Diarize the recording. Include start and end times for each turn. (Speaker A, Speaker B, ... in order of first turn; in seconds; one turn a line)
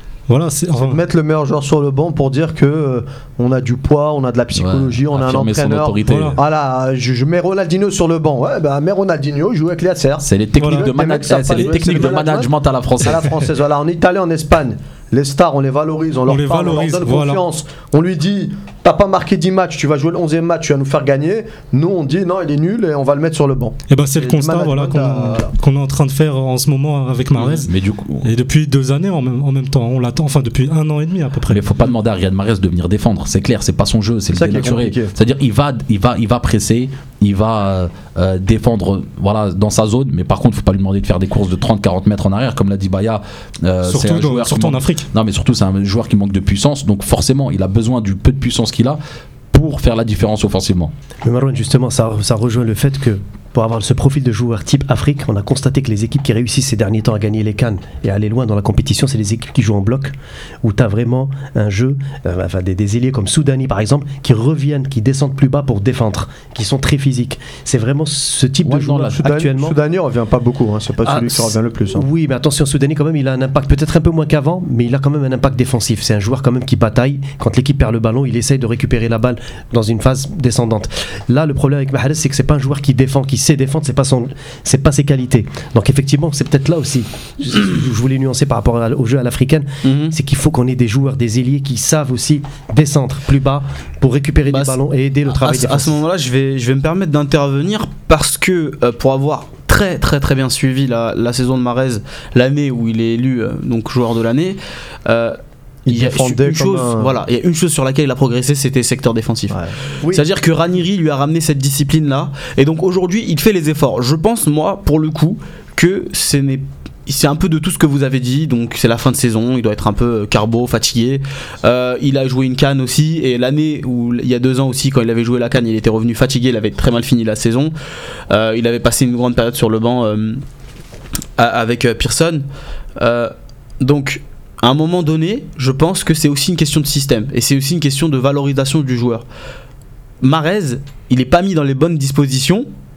Speaker A: 0.3-1.0
Speaker B: 0.7-25.5
Speaker C: 4.5-6.4
Speaker A: 6.1-6.4
Speaker C: 10.2-13.5
Speaker A: 10.6-10.9
Speaker A: 16.3-17.4
Speaker A: 23.9-27.7
Speaker C: 27.4-28.3
Speaker A: 28.2-31.6
Speaker C: 31.5-49.0
Speaker B: 34.3-35.1
Speaker A: 43.9-45.1
Speaker C: 49.5-50.9
Speaker D: 51.2-69.8
Speaker C: 68.7-69.2
Speaker B: 69.2-72.1
Speaker D: 71.0-96.0
Speaker E: 89.8-90.2
Speaker E: 94.5-127.7
Speaker B: 105.9-107.2
Speaker B: 109.5-110.2
Speaker E: 128.3-130.4
Speaker E: 131.4-132.4
Speaker E: 133.0-139.2
Speaker E: 140.2-142.7